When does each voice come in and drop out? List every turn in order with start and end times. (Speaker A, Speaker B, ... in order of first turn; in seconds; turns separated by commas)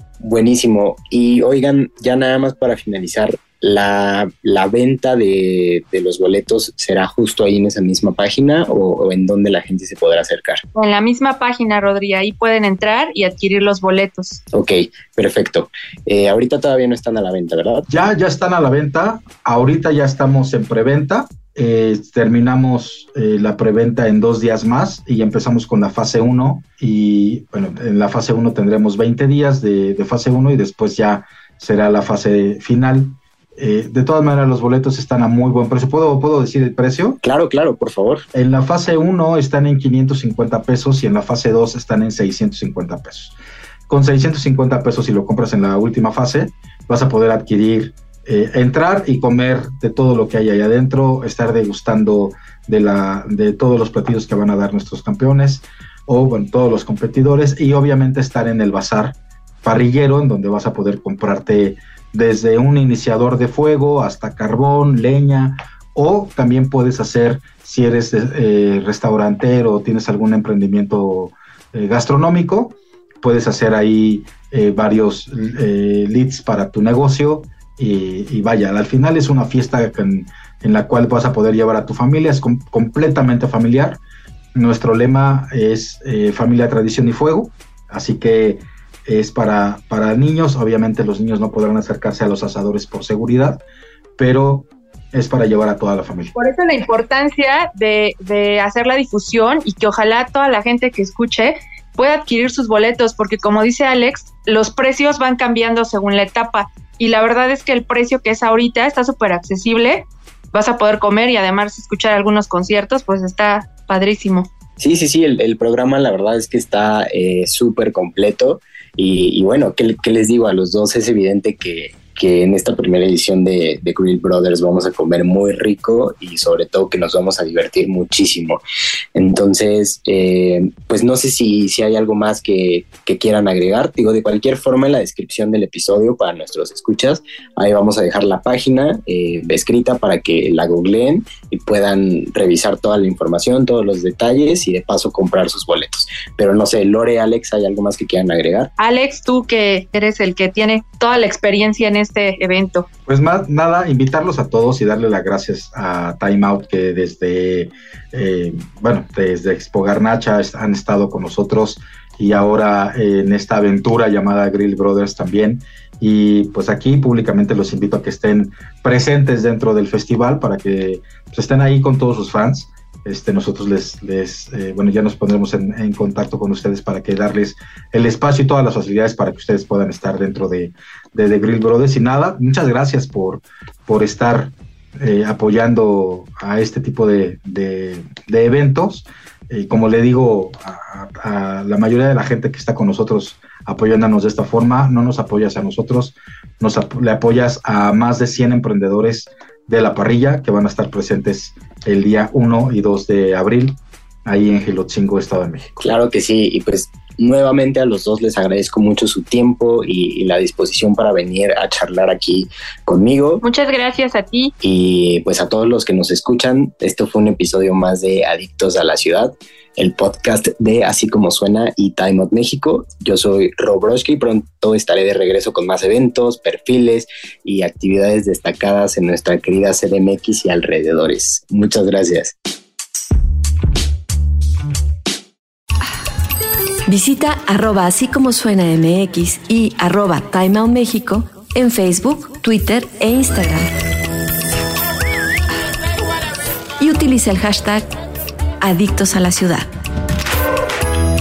Speaker A: 0.2-10.6, Speaker B: 10.8-14.4, Speaker A: 14.5-17.9, Speaker C: 17.9-37.2, Speaker A: 37.2-38.2, Speaker C: 38.3-43.4, Speaker C: 43.9-84.0, Speaker C: 84.5-93.6, Speaker C: 94.2-96.3, Speaker B: 96.3-114.5, Speaker A: 114.8-128.6, Speaker A: 129.2-148.7, Speaker B: 148.8-152.9, Speaker C: 153.1-205.7, Speaker A: 205.8-213.4, Speaker B: 213.4-214.5, Speaker A: 214.6-232.3, Speaker D: 236.9-243.7, Speaker D: 246.8-247.9, Speaker D: 248.6-249.7